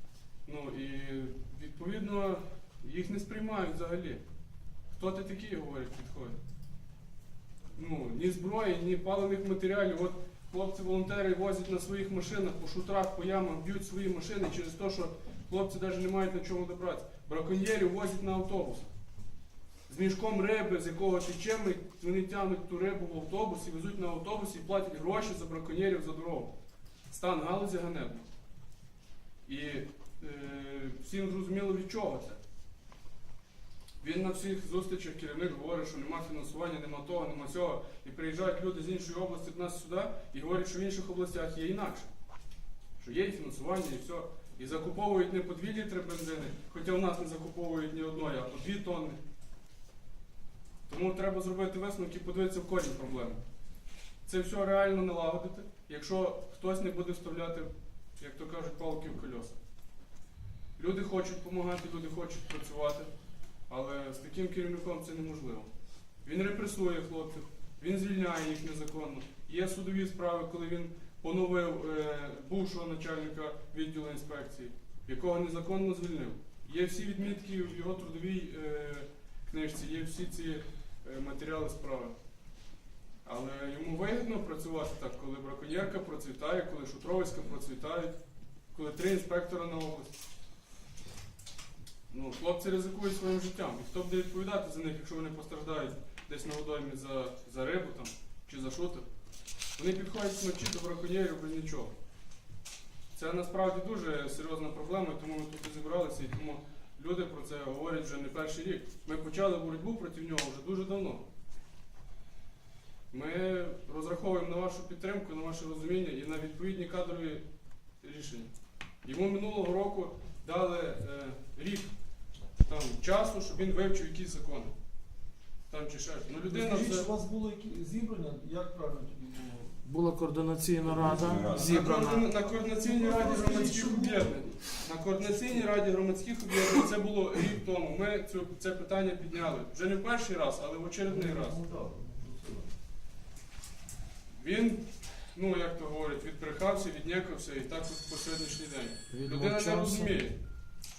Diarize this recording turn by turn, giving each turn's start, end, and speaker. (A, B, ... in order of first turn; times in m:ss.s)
0:00.4-0:04.2 A
0:04.9-0:06.4 A
0:07.8-0:18.9 A
0:19.9-0:26.5 A
0:27.1-0:28.2 A
0:29.5-0:32.4 A
0:34.0-0:42.1 A
0:43.0-0:49.2 A
0:50.9-0:53.4 A
0:54.2-0:59.6 A
1:00.8-1:03.1 A
1:03.7-1:05.7 A
1:06.2-1:22.1 A
1:23.2-1:28.1 A
1:28.7-1:30.2 A
1:32.1-1:39.0 A
1:39.8-1:41.9 A
1:43.1-1:51.2 A
1:53.1-1:57.4 A
1:58.0-1:58.5 A
1:59.0-2:01.9 A
2:02.6-2:04.7 A
2:05.7-2:07.1 A
2:06.4-2:09.8 B
2:09.8-2:12.3 C
2:10.8-2:11.9 B
2:11.3-2:21.6 A
2:12.6-2:14.5 B
2:21.1-2:22.7 B
2:24.3-2:30.4 A
2:29.1-2:30.2 C